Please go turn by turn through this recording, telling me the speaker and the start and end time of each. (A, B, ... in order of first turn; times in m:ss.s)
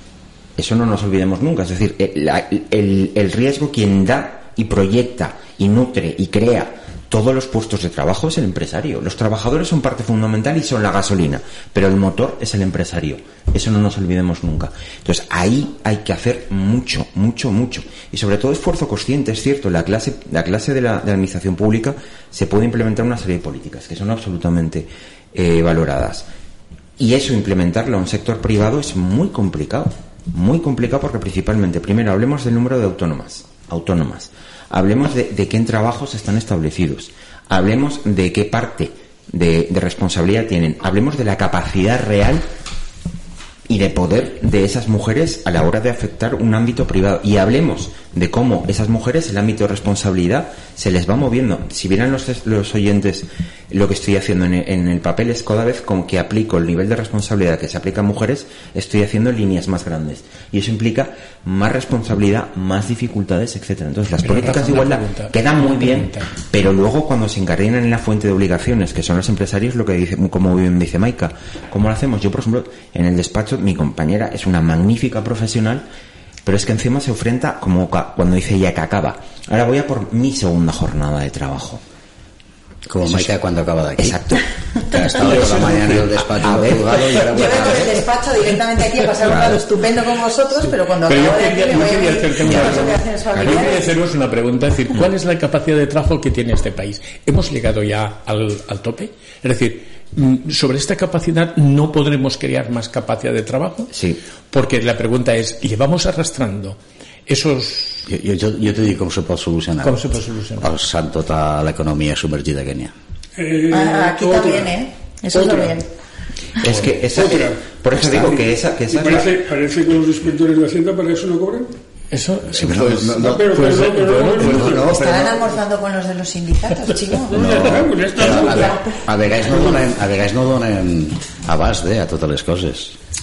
0:00.6-0:26.3 A
0:27.0-0:42.4 A
0:43.7-1:15.8 A
1:04.2-1:06.3 B
1:16.4-1:21.8 A
1:22.9-1:28.0 C
1:23.0-1:23.3 A
1:24.0-1:27.7 A
1:25.2-1:26.1 B
1:27.2-1:33.8 D
1:31.0-1:43.9 B
1:32.4-1:33.7 A
1:43.9-1:44.2 A
1:44.5-1:48.1 B
1:48.1-1:50.0 C
1:49.8-1:50.7 B
1:50.6-1:52.9 C
1:53.4-1:54.8 E
1:53.7-1:55.9 D
1:55.3-1:55.8 E
1:56.6-1:59.4 A
1:57.1-2:01.8 E
2:02.1-2:05.4 B
2:02.5-2:03.8 C
2:03.2-2:04.9 E
2:04.4-2:05.2 C
2:04.7-2:07.7 D
2:07.3-2:08.8 E
2:07.3-2:13.0 C
2:08.4-2:09.0 D